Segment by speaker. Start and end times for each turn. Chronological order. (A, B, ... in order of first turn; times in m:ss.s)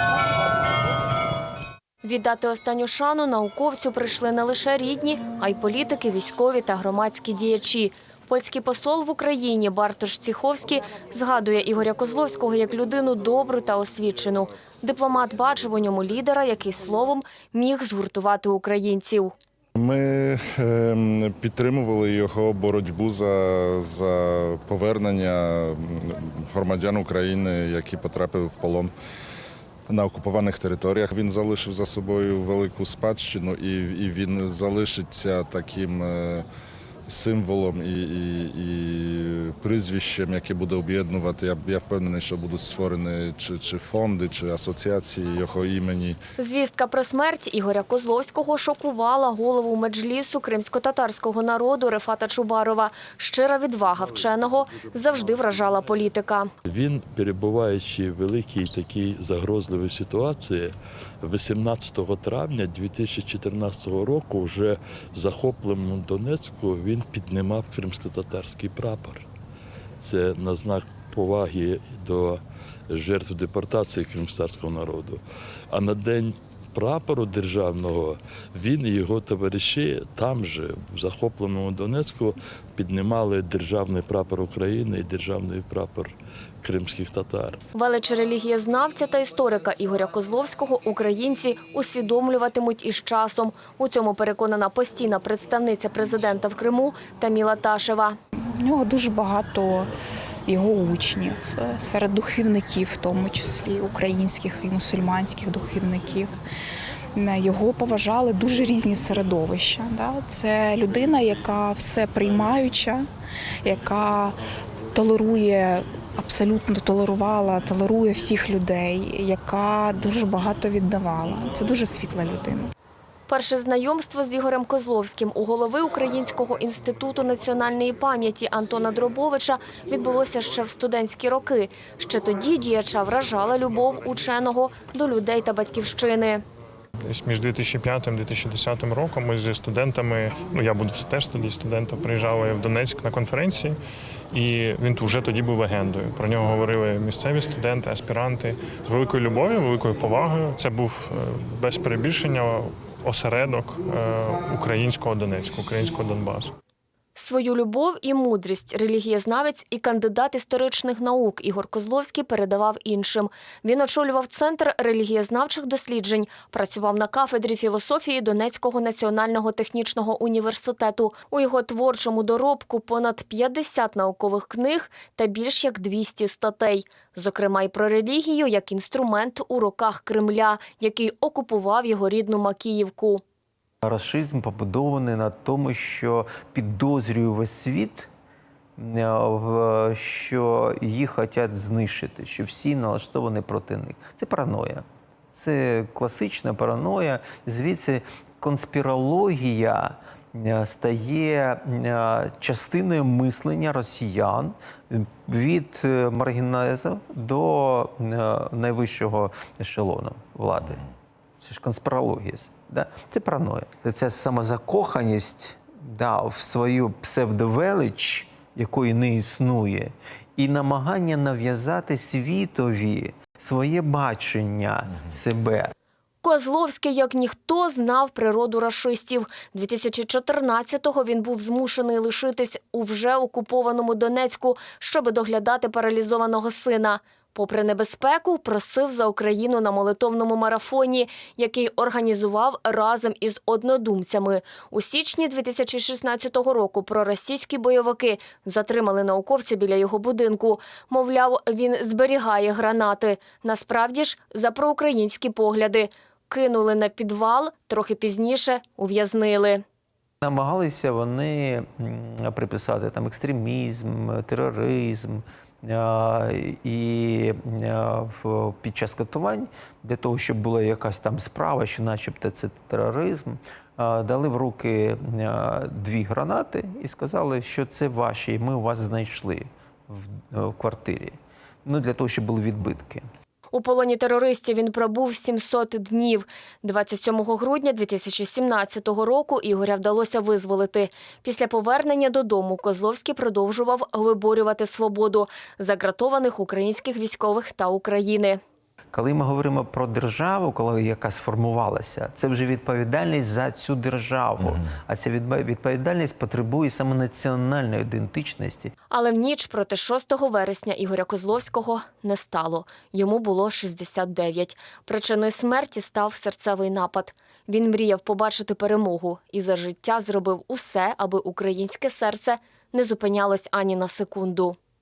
0:02.0-0:19.3 A
0:19.8-0:28.9 B
0:29.9-0:36.5 B
0:37.1-0:46.2 B
0:46.4-0:56.5 A
0:56.6-1:09.2 C
1:10.0-1:27.6 C
1:27.7-1:38.2 A
1:38.6-1:39.9 D
1:40.5-1:46.3 D
1:47.2-1:53.1 D
1:53.6-1:54.4 D
1:54.9-2:02.7 D
2:03.3-2:16.4 A
2:17.1-2:23.8 E
2:24.3-2:36.5 E
2:37.2-3:03.2 A
3:03.8-3:08.1 F
3:08.8-3:30.9 F
3:31.4-3:45.7 F
3:46.2-4:19.6 A
4:20.2-4:43.1 F
4:43.5-4:58.4 A
4:58.9-5:08.7 F
5:08.9-5:24.6 A